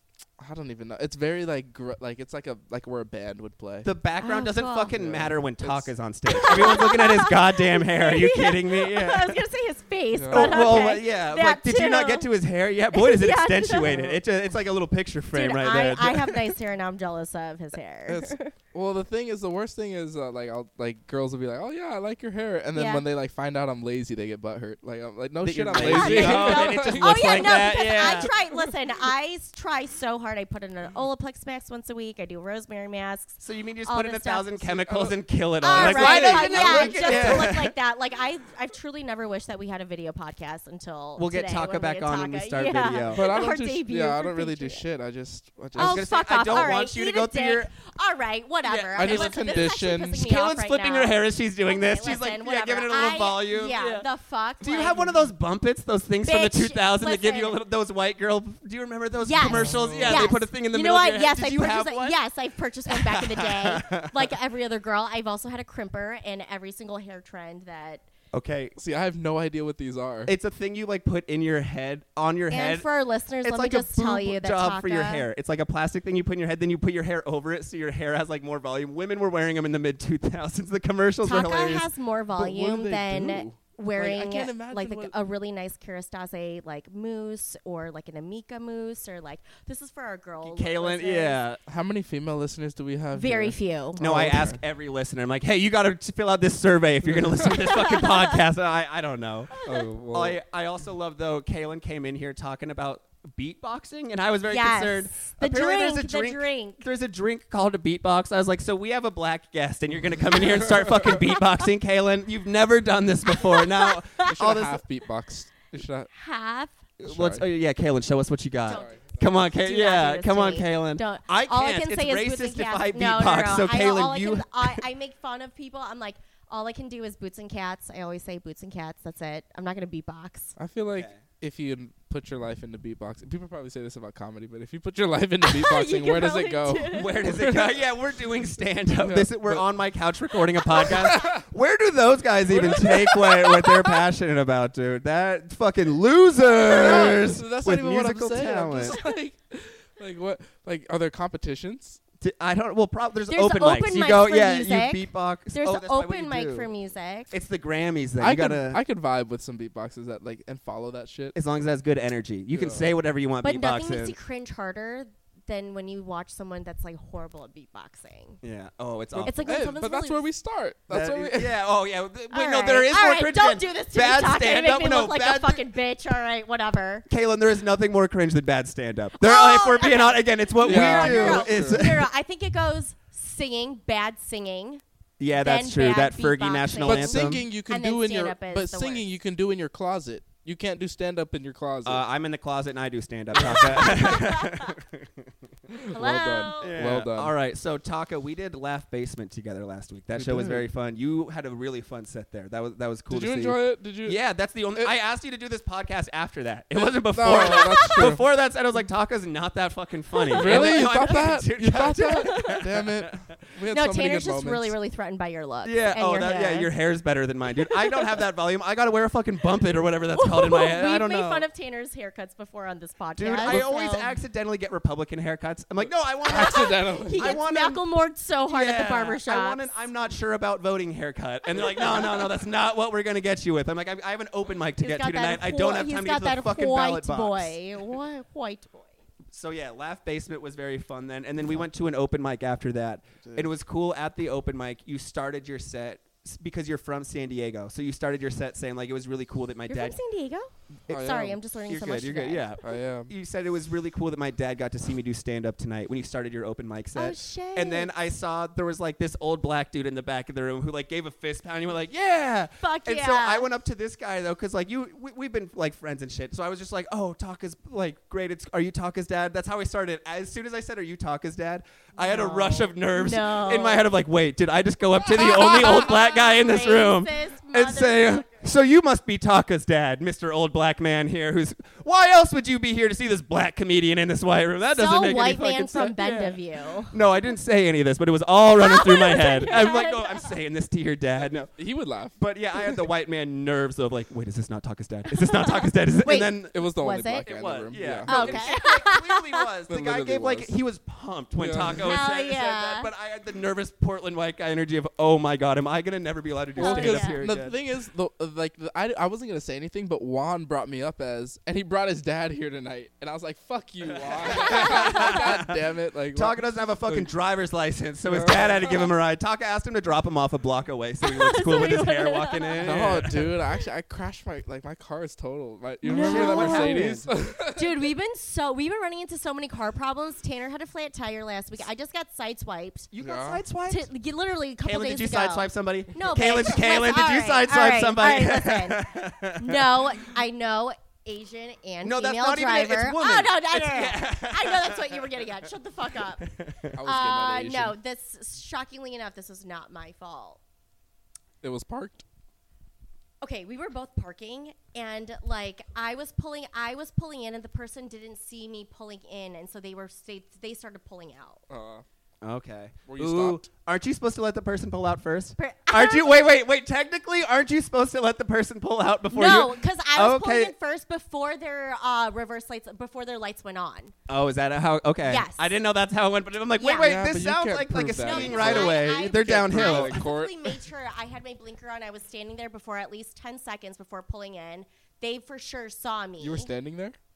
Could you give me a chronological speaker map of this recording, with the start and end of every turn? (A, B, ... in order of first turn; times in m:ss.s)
0:00.4-0:03.9 A
0:03.8-0:09.4 B
0:04.2-0:04.9 C
0:04.9-0:05.9 A
0:06.3-0:12.3 C
0:10.1-0:10.9 A
0:10.3-0:16.4 B
0:12.9-0:14.0 C
0:13.8-0:14.2 A
0:15.3-0:18.5 C
0:18.1-0:28.7 A
0:22.7-0:23.0 C
0:25.4-0:28.3 B
0:25.7-0:34.8 C
0:33.4-0:37.7 B
0:34.8-0:35.2 A
0:35.6-0:44.9 C
0:35.7-0:37.5 A
0:41.2-0:43.3 B
0:43.1-0:46.7 A
0:45.8-0:47.7 B
0:45.8-0:55.2 C
0:48.6-0:49.6 B
0:49.0-0:50.2 A
0:50.2-0:54.1 B
0:54.6-1:02.2 B
0:56.2-0:57.6 C
0:59.2-1:08.0 C
0:59.4-1:00.3 A
1:02.9-1:04.3 B
1:08.3-1:08.8 B
1:08.8-1:10.3 A
1:10.3-1:12.9 B
1:12.5-1:15.3 C
1:13.4-1:21.9 B
1:21.2-1:31.4 C
1:22.3-1:25.2 A
1:30.4-1:31.6 B
1:31.7-1:34.6 A
1:33.1-1:34.0 C
1:34.0-1:54.8 B
1:37.0-1:37.7 A
1:37.7-1:38.4 C
1:39.6-1:40.4 A
1:44.5-1:46.8 C
1:50.6-1:51.1 A
1:53.4-1:54.3 C
1:54.2-1:56.1 A
1:56.1-1:56.8 C
1:57.0-2:04.8 B
1:57.0-1:57.4 A
1:58.7-1:59.5 A
1:58.7-2:10.6 C
2:10.6-2:17.8 A
2:10.9-2:11.2 B
2:15.5-2:17.2 C
2:16.9-2:29.0 B
2:19.0-2:19.7 A
2:20.6-2:21.0 C
2:20.8-2:21.4 A
2:22.5-2:23.0 A
2:22.7-2:24.0 C
2:26.7-2:32.0 A
2:32.2-2:36.7 B
2:33.3-2:37.3 C
2:37.3-2:38.8 B
2:38.2-2:41.4 A
2:41.3-2:44.2 B
2:42.5-2:42.9 A
2:43.4-2:48.4 C
2:48.4-2:49.6 B
2:49.1-2:51.6 A
2:49.2-2:50.3 C
2:50.9-2:55.6 B
2:52.3-2:57.1 C
2:57.1-3:02.1 B
2:59.2-3:04.8 C
3:00.6-3:01.9 A
3:05.2-3:07.4 B
3:05.4-3:09.1 C
3:06.8-3:12.0 A
3:11.8-3:15.3 B
3:13.4-3:13.8 A
3:13.7-3:14.8 C
3:15.7-3:17.3 A
3:15.9-3:16.8 C
3:16.6-3:33.1 B
3:20.1-3:20.7 A
3:23.1-3:24.2 A
3:26.8-3:28.3 A
3:27.3-3:27.8 C
3:30.2-3:31.1 C
3:30.3-3:34.7 A
3:32.1-3:32.6 C
3:33.7-3:36.7 C
3:35.6-3:41.5 B
3:37.8-3:38.0 C
3:40.1-3:44.2 C
3:43.2-3:47.8 B
3:43.4-3:43.7 A
3:46.2-3:47.3 A
3:46.3-3:49.7 C
3:48.5-3:57.6 B
3:54.8-3:59.0 C
3:59.3-4:10.0 B
4:03.2-4:03.5 A
4:09.7-4:12.6 C
4:10.9-4:11.4 A
4:11.7-4:51.5 B
4:12.6-4:13.1 A
4:17.0-4:17.9 C
4:22.6-4:23.5 C
4:32.0-4:33.9 C
4:35.0-4:38.4 C
4:44.7-4:47.0 C
4:48.5-4:50.3 C
4:51.2-4:52.8 A
4:52.2-4:56.6 B
4:55.1-4:57.3 C
4:56.5-4:58.5 A
4:57.3-5:07.6 B
4:58.0-4:59.5 C
4:59.7-5:00.5 A
5:01.4-5:01.9 A
5:01.8-5:02.9 C
5:06.6-5:17.1 A
5:06.6-5:07.2 C
5:14.2-5:15.6 B
5:14.3-5:15.2 C
5:16.1-5:23.3 B
5:18.0-5:18.9 A
5:21.0-5:22.7 C
5:22.6-5:27.7 A
5:25.8-5:26.8 C
5:26.0-5:27.1 B
5:27.6-5:32.9 C
5:32.9-5:33.9 B
5:33.0-5:33.4 A
5:33.7-5:46.3 C
5:34.6-5:39.8 B
5:41.8-5:45.5 B
5:46.2-5:46.8 B
5:46.7-5:47.8 A
5:46.8-5:50.4 C
5:51.4-5:52.0 A
5:53.2-6:01.4 C
6:01.5-6:01.8 A
6:02.2-6:10.5 B
6:02.9-6:03.4 A
6:05.4-6:06.3 C
6:09.1-6:13.9 C
6:14.1-6:20.0 B
6:15.1-6:15.5 C
6:16.6-6:16.9 C
6:16.7-6:20.6 A
6:18.0-6:26.5 C
6:26.2-6:27.0 A